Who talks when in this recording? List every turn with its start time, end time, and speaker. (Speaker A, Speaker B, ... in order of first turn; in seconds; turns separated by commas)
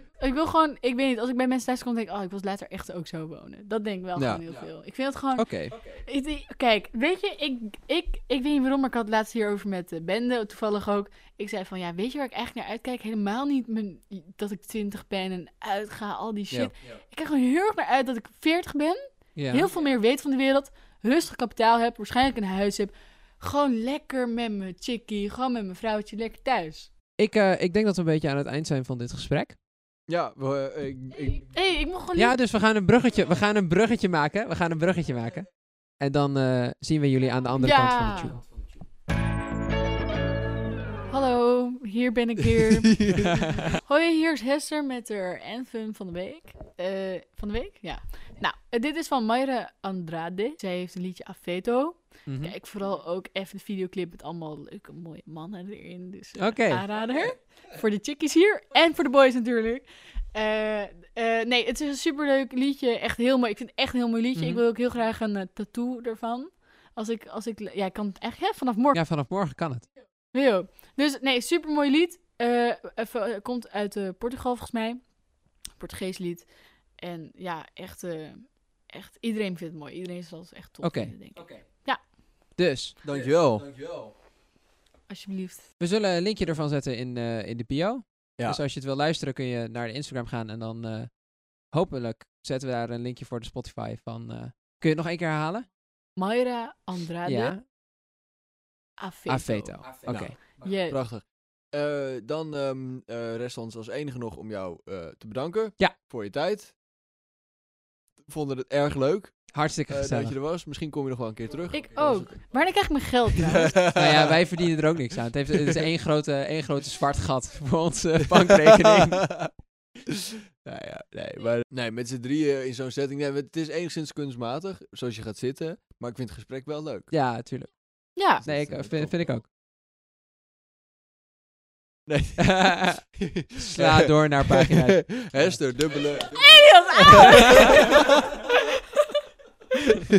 Speaker A: 0.2-26.9, Speaker B: 4.2-4.4, Speaker C: 5.4-5.8, Speaker C: 19.4-19.7, Speaker C: 27.2-29.6, Speaker B: 30.1-31.5, Speaker A: 31.4-32.4, Speaker C: 32.2-38.4, Speaker A: 37.6-38.4, Speaker A: 41.1-69.0, Speaker B: 42.6-43.8, Speaker C: 52.3-52.5, Speaker C: 56.4-56.9, Speaker C: 64.3-64.6, Speaker C: 68.9-69.9, Speaker A: 70.3-75.2, Speaker A: 75.7-82.0, Speaker C: 80.8-81.6, Speaker C: 82.6-83.0, Speaker B: 83.0-83.7, Speaker A: 85.1-85.7, Speaker C: 85.8-91.1, Speaker C: 91.7-95.7, Speaker A: 96.2-97.5, Speaker C: 97.3-97.6, Speaker A: 99.0-101.0, Speaker C: 99.3-100.4, Speaker B: 100.0-106.7, Speaker B: 108.2-112.3, Speaker C: 109.5-110.3, Speaker A: 111.7-113.8, Speaker B: 113.3-114.4, Speaker C: 113.9-119.5, Speaker B: 115.5-115.8, Speaker B: 118.3-119.5, Speaker B: 120.1-127.1, Speaker C: 127.1-129.4, Speaker A: 128.2-128.4, Speaker B: 128.4-129.2, Speaker B: 132.1-138.3, Speaker C: 132.4-133.0, Speaker C: 133.6-135.4, Speaker A: 136.2-139.1, Speaker C: 137.2-137.8